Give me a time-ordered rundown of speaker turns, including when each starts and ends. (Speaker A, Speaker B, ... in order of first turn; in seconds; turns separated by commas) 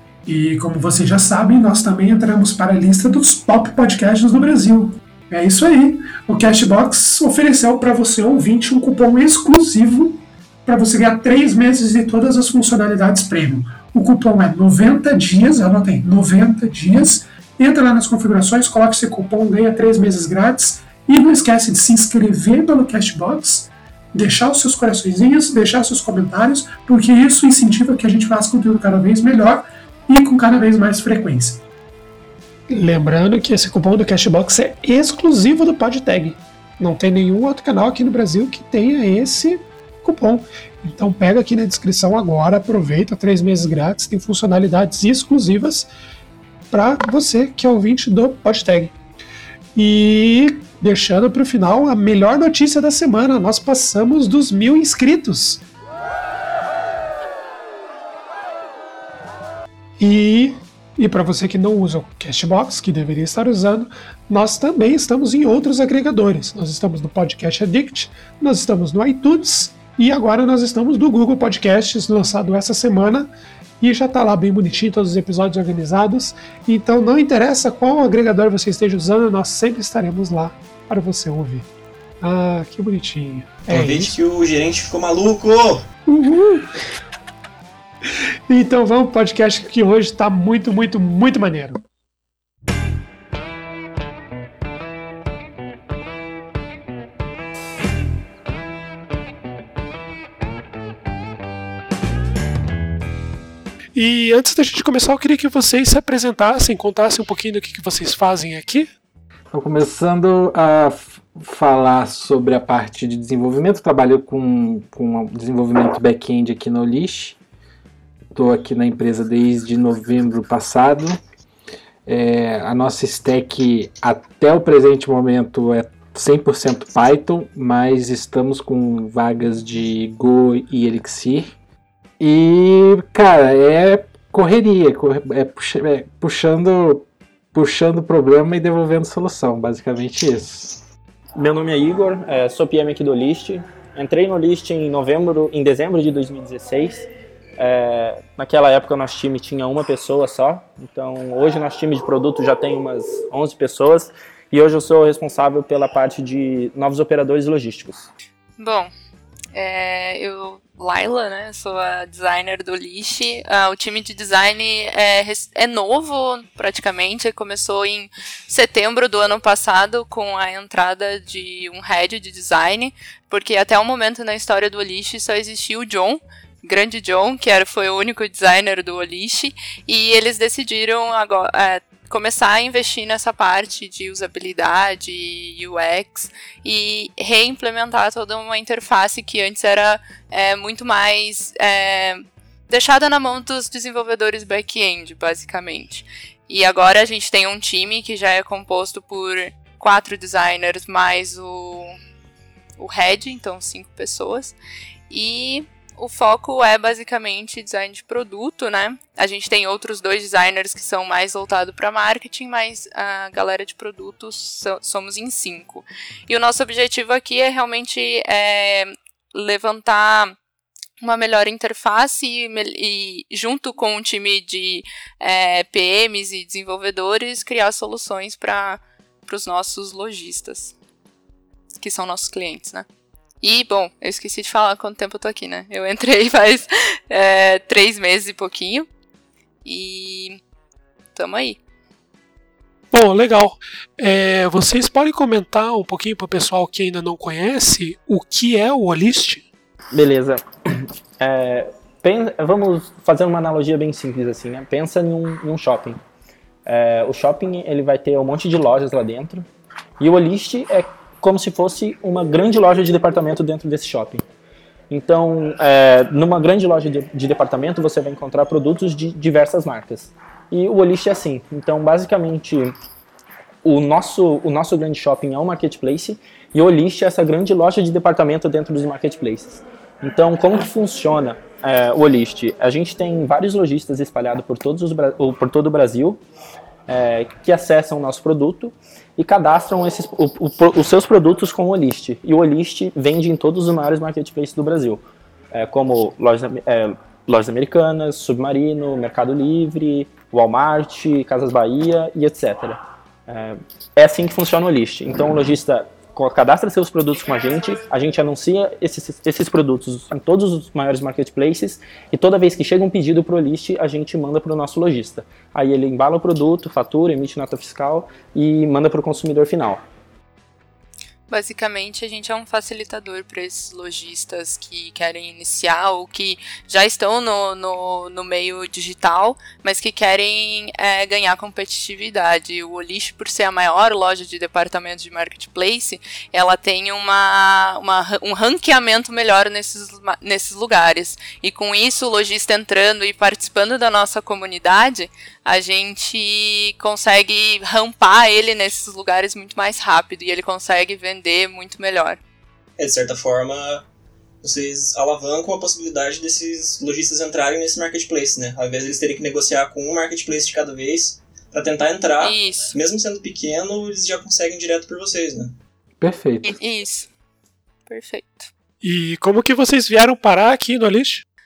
Speaker A: 0.2-31.6, Speaker A: 32.7-45.9, Speaker A: 46.7-48.9, Speaker A: 49.7-55.6, Speaker A: 60.0-81.7, Speaker A: 82.2-84.2, Speaker B: 83.7-85.8, Speaker A: 86.1-86.8, Speaker A: 88.1-91.8, Speaker A: 103.9-108.9, Speaker C: 109.5-117.4, Speaker C: 118.3-121.2, Speaker C: 122.0-131.5, Speaker C: 132.2-140.8, Speaker D: 141.4-158.1, Speaker E: 158.6-158.9, Speaker E: 159.5-201.9, Speaker E: 202.8-204.6, Speaker E: 205.1-220.3, Speaker E: 221.0-230.7, Speaker E: 231.8-232.8, Speaker E: 233.4-238.9, Speaker E: 239.6-240.4, Speaker E: 241.1-241.6, Speaker A: 242.9-249.4, Speaker D: 249.9-256.0, Speaker D: 256.6-259.4, Speaker D: 260.0-264.2, Speaker D: 264.9-272.7, Speaker D: 273.6-286.2, Speaker D: 286.9-295.0, Speaker D: 295.5-319.8, Speaker E: 321.3-352.2, Speaker B: 352.8-353.9, Speaker B: 354.4-365.5, Speaker E: 362.2-362.7, Speaker C: 366.0-366.6, Speaker E: 366.4-367.1, Speaker E: 367.9-368.5, Speaker A: 368.8-371.2